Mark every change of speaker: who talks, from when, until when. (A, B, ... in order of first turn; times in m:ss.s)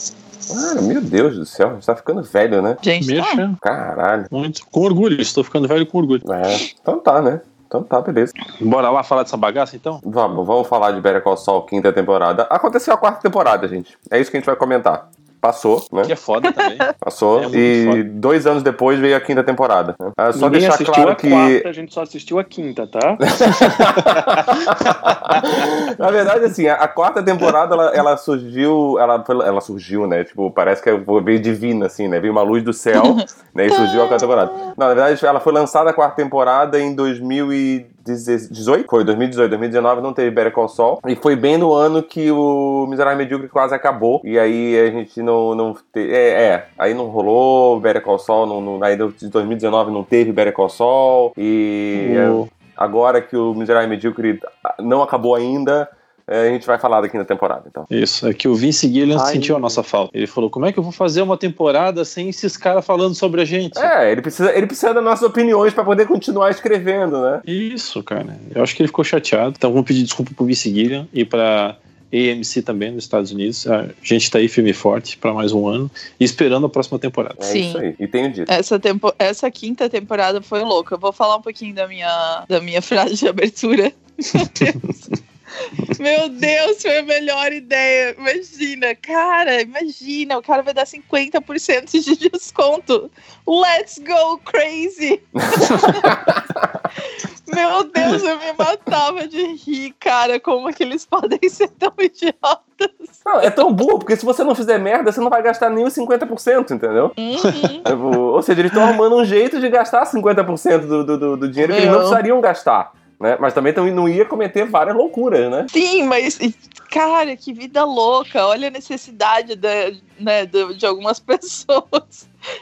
0:00.5-0:02.8 A
0:02.8-0:03.4 B
0:03.0-0:03.6 C
0:03.6-0:04.3 A
0:04.3-0:06.2 C
0:06.2-0:08.3 A
0:08.6-0:10.0 C
0:10.0-0:16.1 A
0:16.1-0:18.0 C
0:16.4-0:16.8 B
0:17.0-0:21.6 A
0:20.3-0:23.3 D
0:23.4-0:57.9 A
0:33.0-0:34.7 B
0:52.0-0:52.5 C
0:57.9-1:03.9 C
0:59.1-0:59.8 D
1:03.8-1:07.4 A
1:07.4-1:17.4 C
1:17.4-1:18.5 A
1:17.5-1:17.8 B
1:18.5-1:24.9 B
1:25.7-1:36.2 B
1:35.4-1:36.6 A
1:37.5-1:43.6 B
1:43.3-1:47.2 A
1:47.2-1:47.9 B
1:47.4-1:47.8 C
1:47.9-1:55.7 A
1:51.6-1:52.2 B
1:55.7-2:02.3 B